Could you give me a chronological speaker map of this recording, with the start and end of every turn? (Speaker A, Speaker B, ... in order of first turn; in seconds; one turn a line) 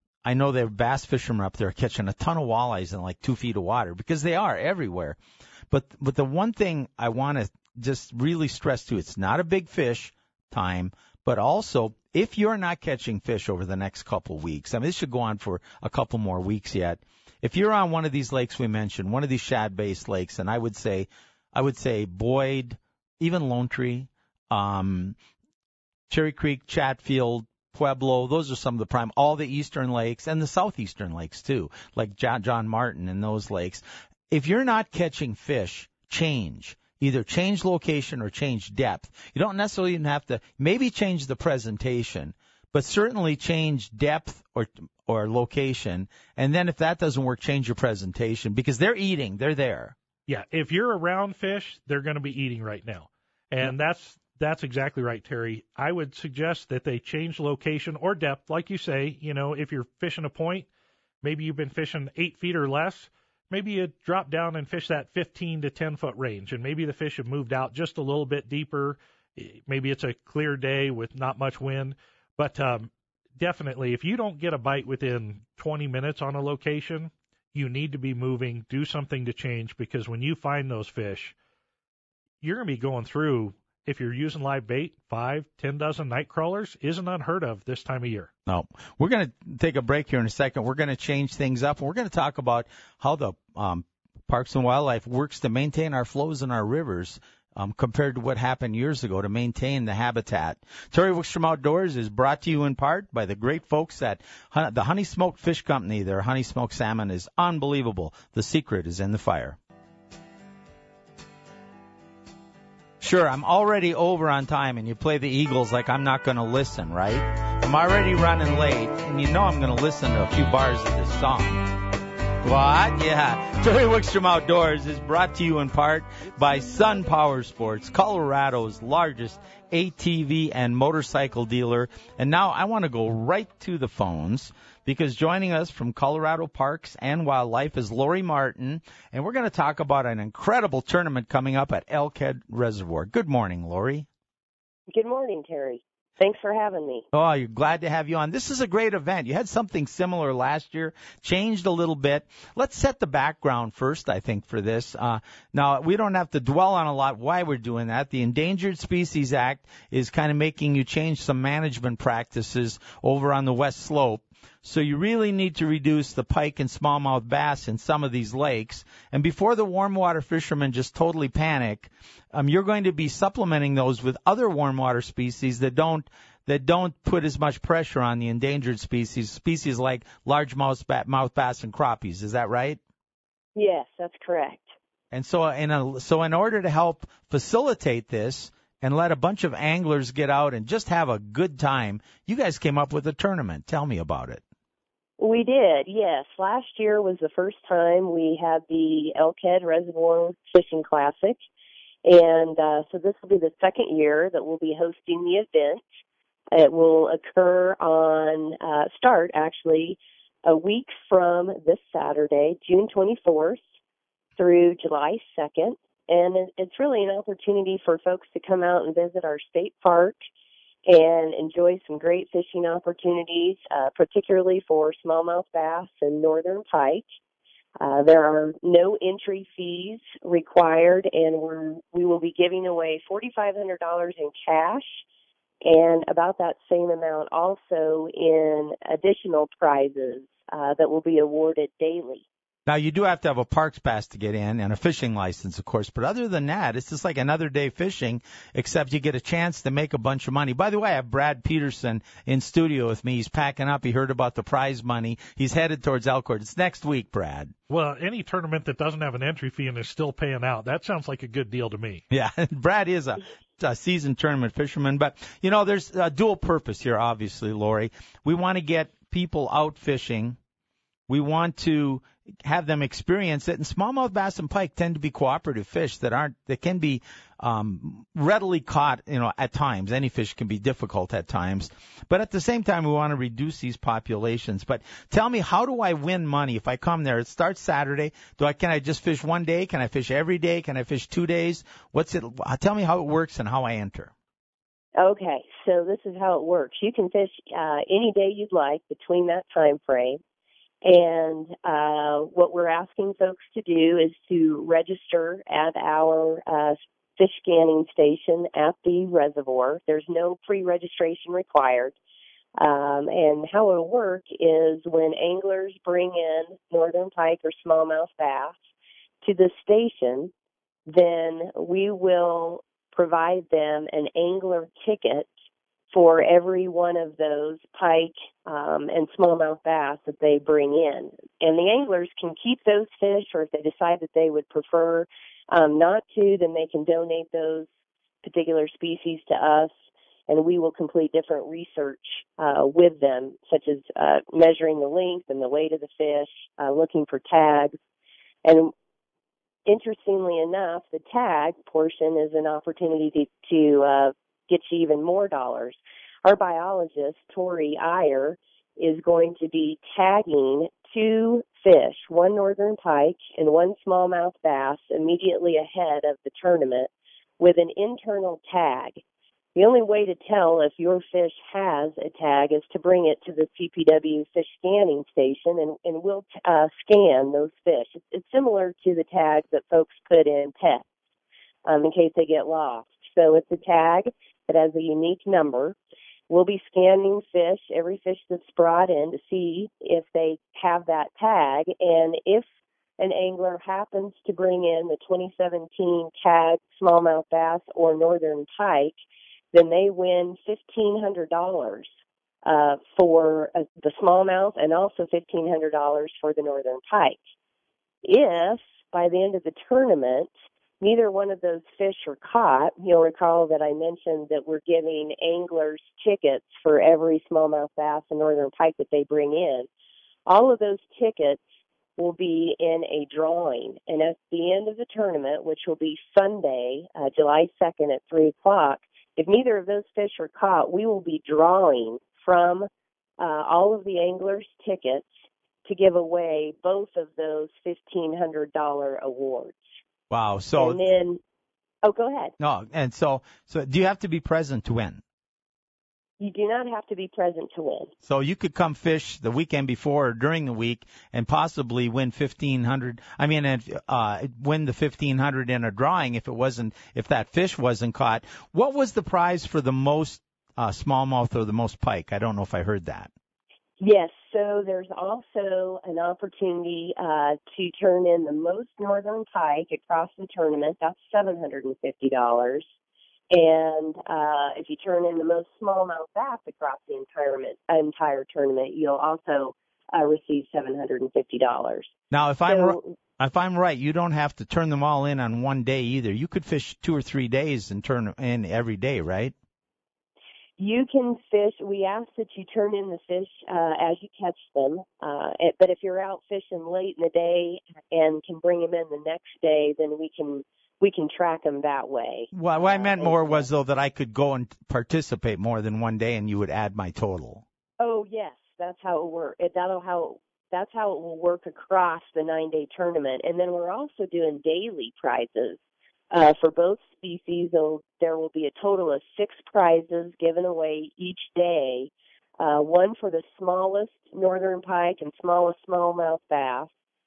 Speaker A: 0.2-5.2
Speaker A: 5.7-25.2
Speaker A: 26.1-49.9
Speaker B: 50.3-60.7
Speaker B: 61.2-81.3
Speaker B: 82.4-88.3
Speaker A: 88.5-109.6
Speaker A: 113.0-121.7
Speaker A: 122.4-144.1
Speaker C: 144.9-147.0
Speaker A: 147.1-182.8
Speaker C: 183.5-184.7
Speaker A: 185.1-194.4
Speaker C: 195.2-201.4
Speaker C: 202.0-205.8
Speaker C: 206.5-213.6
Speaker C: 214.4-220.2
Speaker C: 220.9-227.0
Speaker C: 227.8-235.0
Speaker C: 235.6-242.2
Speaker A: 242.7-257.5
Speaker B: 257.7-262.0
Speaker A: 262.1-270.4
Speaker A: 271.1-294.1
Speaker C: 295.0-300.2
Speaker C: 300.8-311.9
Speaker C: 312.6-318.6
Speaker C: 319.2-320.3
Speaker C: 320.9-325.3
Speaker C: 325.9-337.7
Speaker C: 338.2-339.7
Speaker C: 340.3-347.8
Speaker C: 348.4-348.7
Speaker C: 349.6-369.0
Speaker C: 369.6-380.8
Speaker C: 381.6-385.8
Speaker C: 386.3-392.4
Speaker C: 393.0-398.9
Speaker C: 399.5-401.9
Speaker C: 402.4-407.2
Speaker C: 408.0-419.7
Speaker C: 420.3-421.4
Speaker C: 422.0-435.1
Speaker C: 435.6-439.6
Speaker A: 440.1-440.8
Speaker C: 440.6-441.2
Speaker C: 441.8-442.3
Speaker A: 442.4-445.0
Speaker C: 446.2-447.9
Speaker A: 448.0-463.1
Speaker C: 463.8-472.6
Speaker C: 473.3-481.9
Speaker A: 482.1-489.3
Speaker C: 482.5-482.9
Speaker C: 490.6-503.4
Speaker A: 502.3-507.4
Speaker C: 507.8-515.6
Speaker C: 516.1-526.7